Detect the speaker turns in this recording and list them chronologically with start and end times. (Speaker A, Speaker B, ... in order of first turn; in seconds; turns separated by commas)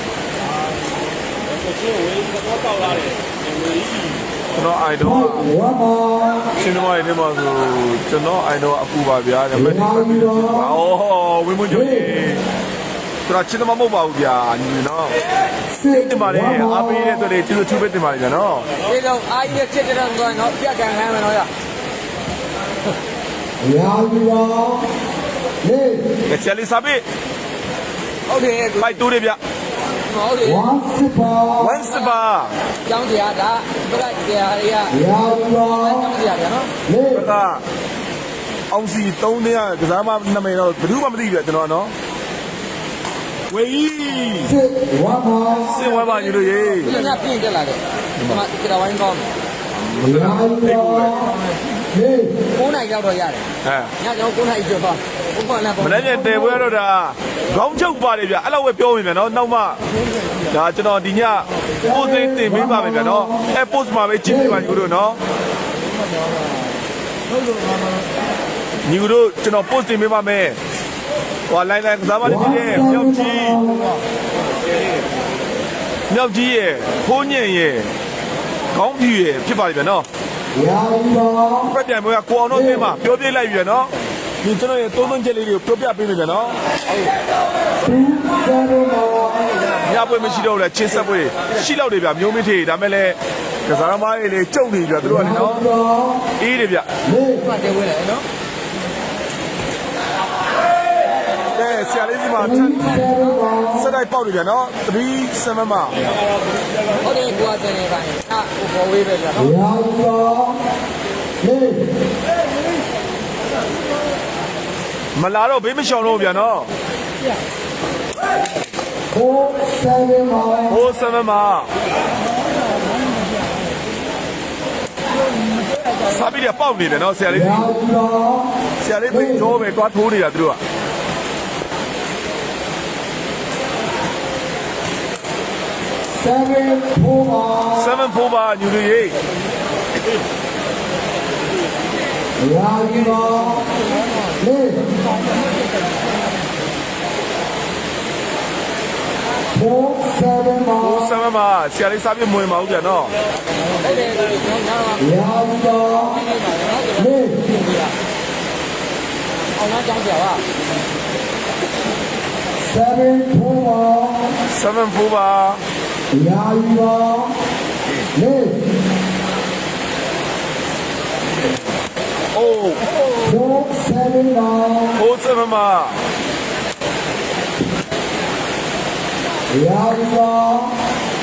Speaker A: 4.5-5.5, Speaker B: 5.0-6.5, Speaker A: 6.6-12.4, Speaker B: 9.5-10.8, Speaker B: 11.7-12.1, Speaker A: 13.3-15.2, Speaker B: 15.7-17.3, Speaker A: 15.9-18.7, Speaker C: 18.9-21.5, Speaker B: 23.6-24.9, Speaker B: 25.6-26.1, Speaker A: 26.3-27.0, Speaker C: 28.3-29.0, Speaker A: 28.8-29.4, Speaker C: 30.1-30.7, Speaker B: 30.4-31.8, Speaker A: 31.6-32.5, Speaker C: 31.8-32.2, Speaker C: 32.9-35.0, Speaker B: 34.9-36.1, Speaker C: 35.6-36.7, Speaker B: 36.9-37.3, Speaker A: 37.1-37.6, Speaker A: 38.7-41.9, Speaker A: 43.5-44.6, Speaker B: 44.4-45.9, Speaker A: 45.7-47.0, Speaker C: 46.8-49.3, Speaker A: 49.8-51.3, Speaker B: 50.0-51.4, Speaker B: 51.9-52.3, Speaker C: 52.5-53.5, Speaker A: 53.6-53.9, Speaker C: 54.0-56.6, Speaker A: 55.8-59.8, Speaker A: 60.5-65.2, Speaker B: 61.8-63.5, Speaker B: 64.3-64.7, Speaker A: 68.8-70.6, Speaker A: 71.5-73.7, Speaker B: 72.2-73.9, Speaker A: 76.1-77.9, Speaker A: 78.7-80.0, Speaker B: 80.5-81.7, Speaker A: 81.7-83.9, Speaker B: 82.5-82.9, Speaker A: 84.4-86.6, Speaker B: 87.8-89.6, Speaker A: 89.8-95.7, Speaker C: 89.9-90.5, Speaker B: 95.0-96.2, Speaker A: 96.4-96.9, Speaker B: 97.0-97.4, Speaker C: 97.3-98.2, Speaker A: 101.5-103.1, Speaker B: 102.4-103.9, Speaker C: 103.0-103.5, Speaker A: 103.8-106.2, Speaker C: 107.0-109.6, Speaker B: 109.4-110.6, Speaker B: 111.4-111.9, Speaker A: 115.2-116.7, Speaker B: 119.1-120.8, Speaker A: 120.7-121.7, Speaker A: 126.0-127.8, Speaker B: 127.3-128.5, Speaker A: 128.8-130.6, Speaker B: 129.1-129.5, Speaker B: 136.1-137.9, Speaker A: 137.7-139.2, Speaker B: 142.4-143.7, Speaker B: 144.4-144.9, Speaker B: 149.5-151.1, Speaker A: 150.8-153.2, Speaker C: 153.7-155.2, Speaker B: 155.0-156.2, Speaker C: 155.9-157.9, Speaker B: 157.0-157.4, Speaker C: 159.5-160.4, Speaker B: 162.6-164.4, Speaker A: 164.5-165.6, Speaker B: 166.1-167.3, Speaker B: 168.1-168.6, Speaker A: 172.3-172.8, Speaker B: 173.2-175.0, Speaker A: 175.0-176.0, Speaker B: 179.5-180.8